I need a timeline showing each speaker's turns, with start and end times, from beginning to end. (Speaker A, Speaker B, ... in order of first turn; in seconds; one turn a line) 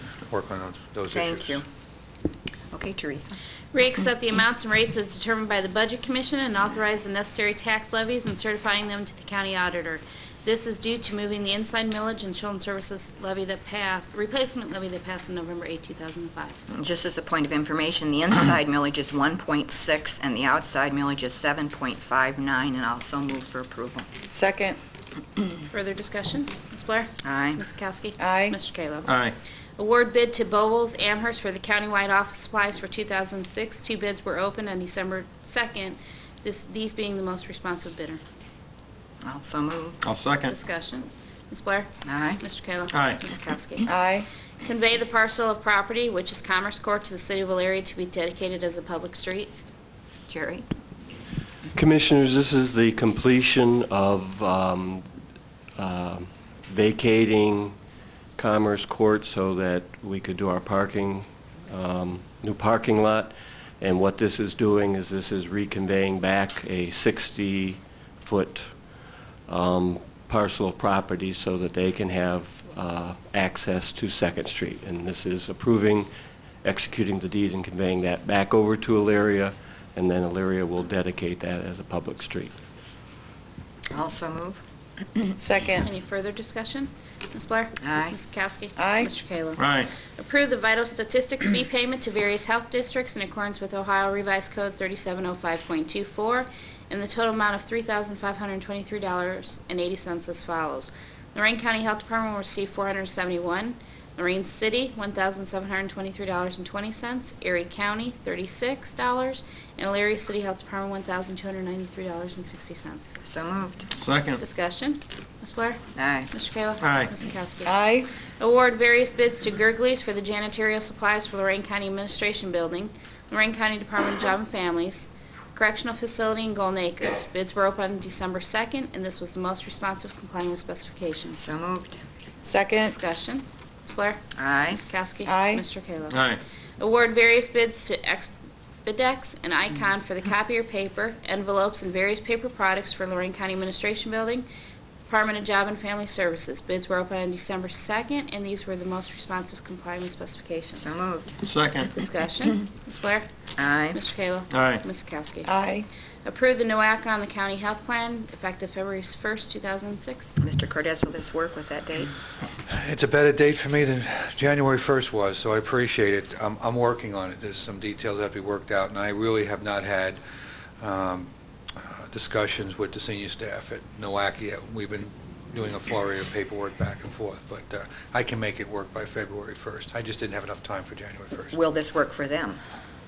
Speaker A: 0.3-1.6
Speaker B: 1.1-1.6
Speaker B: 2.7-3.4
Speaker C: 3.7-16.6
Speaker B: 16.7-24.1
Speaker D: 24.3-24.8
Speaker C: 25.7-29.1
Speaker B: 27.2-27.6
Speaker D: 28.2-28.6
Speaker E: 29.1-29.3
Speaker C: 29.8-38.2
Speaker B: 39.2-40.0
Speaker E: 40.0-40.5
Speaker C: 40.5-43.9
Speaker B: 42.0-42.4
Speaker E: 42.9-43.2
Speaker D: 43.9-44.3
Speaker C: 44.6-49.5
Speaker B: 50.3-50.6
Speaker F: 51.7-55.0
Speaker F: 55.8-57.8
Speaker F: 58.4-68.8
Speaker F: 69.5-76.1
Speaker F: 76.6-82.5
Speaker B: 83.9-84.6
Speaker D: 85.4-85.8
Speaker C: 85.8-113.2
Speaker B: 87.8-88.2
Speaker D: 88.8-89.1
Speaker E: 89.6-89.9
Speaker B: 113.2-113.9
Speaker E: 114.0-114.4
Speaker C: 114.4-115.8
Speaker B: 116.0-116.3
Speaker C: 116.3-117.7
Speaker E: 116.8-117.1
Speaker D: 117.6-118.1
Speaker C: 118.4-131.4
Speaker B: 131.4-132.0
Speaker D: 132.4-132.9
Speaker C: 132.8-138.3
Speaker B: 134.3-134.8
Speaker D: 135.2-135.6
Speaker E: 136.1-136.4
Speaker C: 138.8-144.4
Speaker C: 145.1-150.9
Speaker B: 150.7-151.4
Speaker E: 151.4-152.0
Speaker C: 151.8-153.3
Speaker B: 153.6-154.0
Speaker C: 153.9-155.5
Speaker E: 154.5-154.8
Speaker D: 155.4-155.9
Speaker C: 156.2-160.3
Speaker B: 160.4-162.1
Speaker A: 162.7-170.2
Speaker A: 170.8-181.6
Speaker B: 181.5-182.6